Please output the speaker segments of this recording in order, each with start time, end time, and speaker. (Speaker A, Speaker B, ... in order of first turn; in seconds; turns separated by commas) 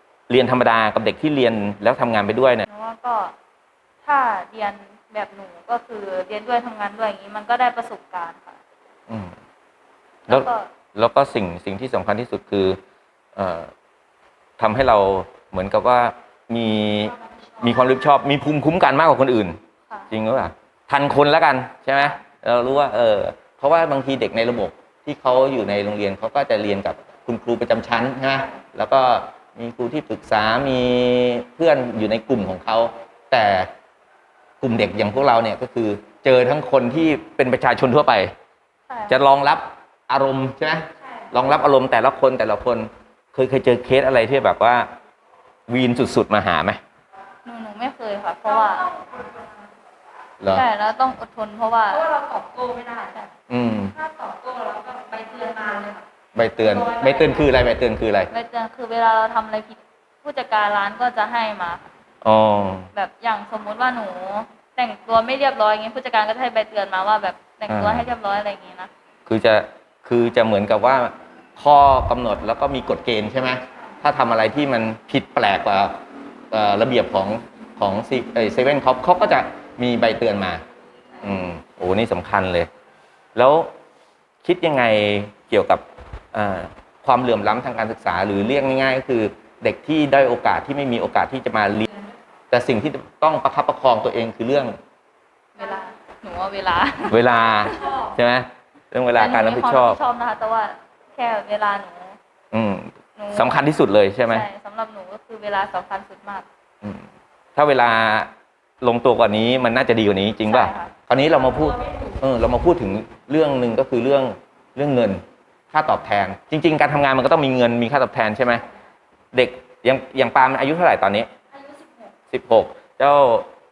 Speaker A: 0.3-2.7, Speaker B: 2.7-3.3, Speaker B: 4.0-8.6, Speaker A: 9.1-9.3, Speaker B: 10.3-10.7, Speaker A: 10.3-12.8, Speaker A: 13.3-13.7, Speaker A: 14.6-19.6, Speaker C: 17.1-17.9, Speaker A: 20.1-33.7, Speaker A: 34.6-38.3, Speaker B: 38.9-39.2, Speaker A: 39.1-44.9, Speaker C: 41.0-41.4, Speaker A: 45.7-46.8, Speaker B: 47.4-48.9, Speaker C: 48.4-49.7, Speaker A: 50.4-50.6, Speaker B: 50.5-52.0, Speaker C: 51.9-53.3, Speaker A: 53.5-53.9, Speaker C: 53.9-56.0, Speaker A: 56.3-58.3, Speaker C: 56.6-57.5, Speaker B: 58.3-61.9, Speaker A: 62.2-62.9, Speaker B: 62.9-68.9, Speaker A: 67.7-68.1, Speaker A: 69.3-76.0, Speaker C: 73.6-73.9, Speaker A: 76.5-80.6, Speaker A: 81.2-82.7, Speaker A: 83.3-83.7, Speaker A: 84.4-91.9, Speaker C: 91.9-92.4, Speaker A: 92.5-94.8, Speaker B: 95.5-97.9, Speaker A: 97.1-100.0, Speaker C: 97.6-98.2, Speaker B: 99.1-102.2, Speaker A: 102.5-104.5, Speaker B: 103.2-103.6, Speaker B: 104.3-106.5, Speaker A: 106.8-108.3, Speaker A: 108.8-118.6, Speaker B: 110.4-110.9, Speaker C: 111.3-112.2, Speaker C: 118.5-118.8, Speaker A: 119.3-121.3, Speaker C: 121.5-122.1, Speaker A: 122.3-123.5